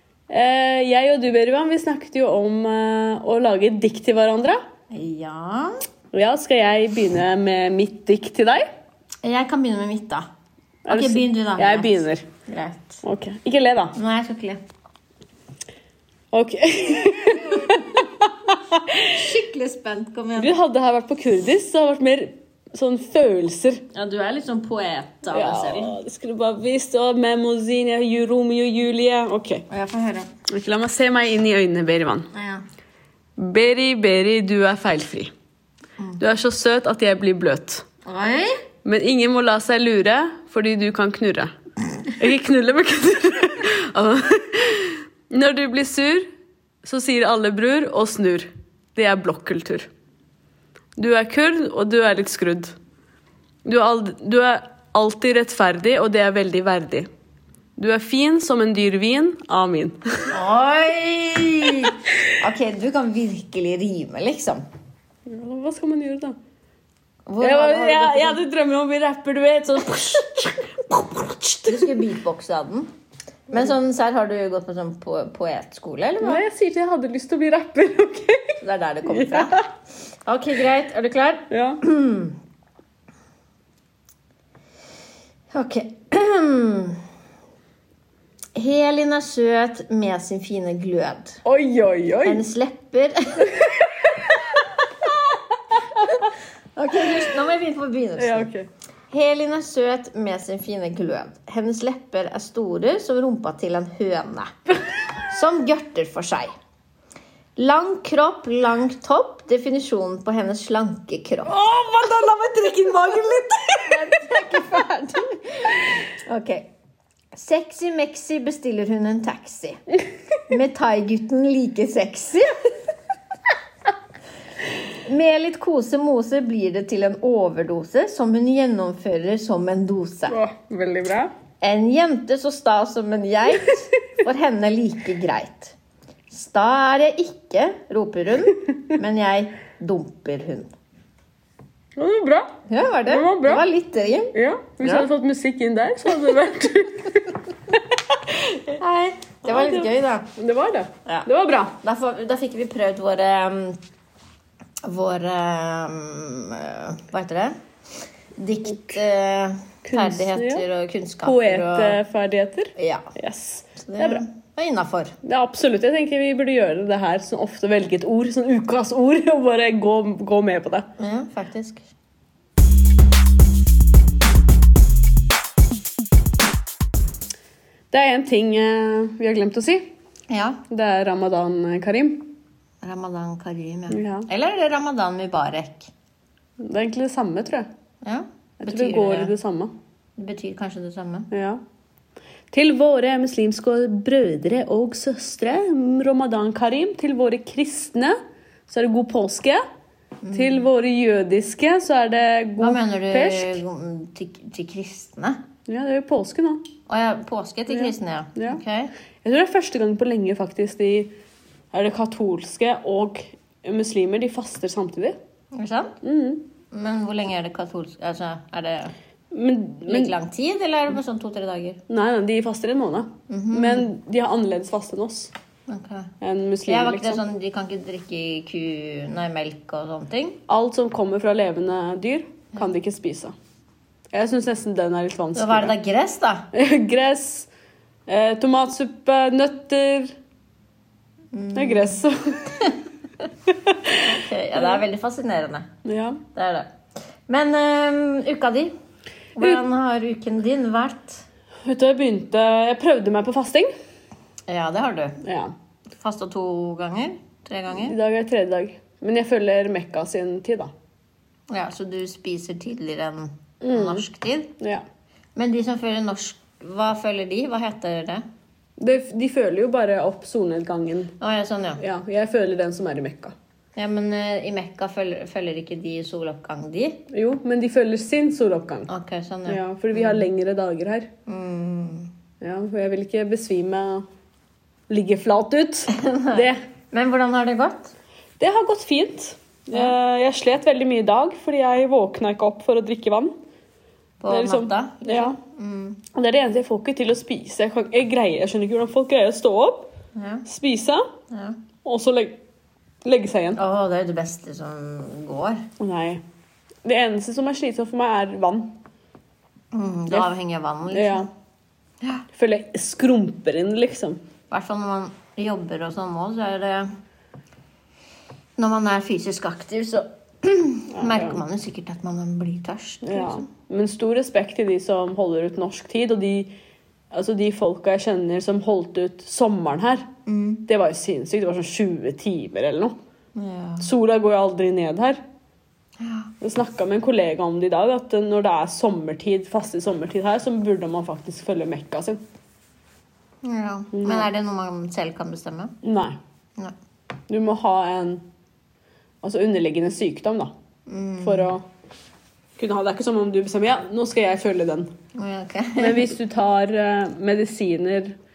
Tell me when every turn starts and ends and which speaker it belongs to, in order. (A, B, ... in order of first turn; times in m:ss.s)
0:00.3-0:04.6 A
0:04.9-0:05.8 B
0:06.1-0:08.7 A
0:09.2-0:10.3 B
0:10.9-0:12.2 A
0:10.9-0:13.0 B
0:13.0-0:14.0 A
0:14.0-0:14.6 B
0:16.3-0:19.2 A
0:17.6-0:17.9 B
0:19.1-0:20.6 B
0:20.4-0:23.8 A
0:23.9-0:25.9 B
0:25.3-0:29.7 A
0:29.7-0:30.3 B
0:30.5-0:32.3 A
0:32.3-0:32.6 B
0:33.4-0:35.3 A
0:36.2-0:37.9 A
0:38.0-0:38.5 B
0:38.8-0:41.5 A
0:42.1-0:46.3 A
0:46.8-0:49.9 A
0:51.0-0:52.8 A
0:53.6-0:57.1 A
0:57.8-1:00.3 A
1:00.3-1:04.6 B
1:05.3-1:06.4 A
1:07.3-1:08.4 B
1:07.4-1:11.9 A
1:11.7-1:12.9 B
1:13.5-1:16.4 B
1:16.2-1:19.7 A
1:18.6-1:19.6 B
1:20.2-1:22.4 B
1:21.5-1:21.8 A
1:25.5-1:27.0 B
1:28.6-1:31.4 B
1:31.4-1:32.4 A
1:32.2-1:33.7 B
1:33.4-1:34.6 A
1:35.9-1:36.3 A
1:36.8-1:38.5 B
1:38.2-1:38.7 A
1:39.1-1:44.5 B
1:45.2-1:46.5 B
1:47.6-1:51.5 B
1:51.5-1:54.1 A
1:53.7-1:55.4 B
1:56.2-1:56.7 B
1:57.3-1:59.8 B
2:00.5-2:02.7 B
2:05.0-2:10.4 B
2:10.3-2:11.3 A
2:11.6-2:15.8 B
2:16.3-2:20.7 B
2:22.0-2:23.6 A
2:22.7-2:25.1 B
2:24.3-2:27.3 A
2:28.3-2:28.8 A
2:28.8-2:30.3 B
2:29.4-2:31.8 A
2:31.8-2:33.8 B
2:34.8-2:37.6 B
2:38.4-2:42.0 B
2:39.8-2:40.6 A
2:41.2-2:44.2 A
2:42.8-2:43.1 B
2:43.8-2:45.2 B
2:45.2-2:50.9 A
2:51.0-2:51.9 B
2:57.9-2:59.9 A
3:00.3-3:00.6 B
3:00.7-3:02.3 A
3:02.8-3:05.9 B
3:03.9-3:04.3 A
3:06.6-3:07.7 A
3:08.0-3:09.3 B
3:08.6-3:09.7 A
3:10.2-3:11.3 B
3:11.3-3:11.6 A
3:12.5-3:19.6 A
3:20.2-3:20.7 B
3:20.3-3:23.6 A
3:22.6-3:25.4 B
3:25.7-3:26.6 A
3:26.9-3:28.9 B
3:27.7-3:28.6 A
3:29.2-3:31.1 A
3:31.7-3:35.2 A
3:35.5-3:36.0 B
3:36.0-3:36.4 A
3:36.7-3:38.9 B
3:39.3-3:40.1 A
3:39.9-3:41.8 B
3:41.9-3:45.3 A
3:43.3-3:43.9 B
3:45.7-3:46.1 B
3:46.2-3:47.2 A
3:46.7-3:50.4 B
3:50.5-3:53.4 A
3:54.1-3:55.7 A
3:55.4-3:56.5 B
3:56.5-3:57.5 A
3:58.1-4:00.2 A
4:01.3-4:02.8 B
4:01.6-4:02.6 A
4:03.5-4:04.2 A
4:04.0-4:05.7 B
4:05.8-4:06.2 A
4:06.3-4:06.7 B
4:07.3-4:08.7 B
4:09.4-4:11.2 B
4:11.7-4:13.7 A
4:14.5-4:15.2 B
4:15.2-4:15.5 A
4:16.0-4:18.0 B
4:17.7-4:20.7 A
4:21.5-4:24.5 B
4:23.6-4:24.0 A
4:25.4-4:28.2 B
4:28.8-4:31.1 A
4:31.2-4:31.8 B
4:31.8-4:33.4 A
4:33.8-4:37.0 B
4:37.1-4:38.9 A
4:38.9-4:40.3 B
4:39.5-4:41.1 A
4:41.3-4:42.1 B
4:42.4-4:44.1 A
4:44.9-4:46.6 A
4:45.9-4:47.9 B
4:48.4-4:53.3 A
4:54.2-4:56.0 B
4:54.3-4:55.4 A
4:56.1-4:59.9 A
5:00.2-5:00.4 B
5:00.5-5:01.0 A
5:01.3-5:01.6 B
5:01.8-5:02.4 A
5:03.0-5:03.6 A
5:03.6-5:05.6 B
5:05.8-5:06.2 A
5:06.8-5:08.7 A
5:09.7-5:11.3 B
5:10.9-5:11.3 A
5:12.3-5:14.2 A
5:14.5-5:16.9 B
5:18.6-5:23.5 B
5:20.9-5:21.4 A
5:23.0-5:26.5 A
5:27.1-5:30.1 A
5:30.3-5:30.6 B
5:30.7-5:33.0 A
5:33.4-5:33.9 B
5:33.8-5:35.2 A
5:36.0-5:36.3 B
5:36.4-5:42.2 A
5:43.4-5:45.7 B
5:43.9-5:44.3 A
5:45.8-5:46.2 A
5:47.3-5:48.2 A
5:49.2-5:50.5 A
5:50.9-5:51.5 B
5:51.2-5:51.6 A
5:52.6-5:54.9 A
5:55.1-5:56.1 B
5:55.8-5:58.2 A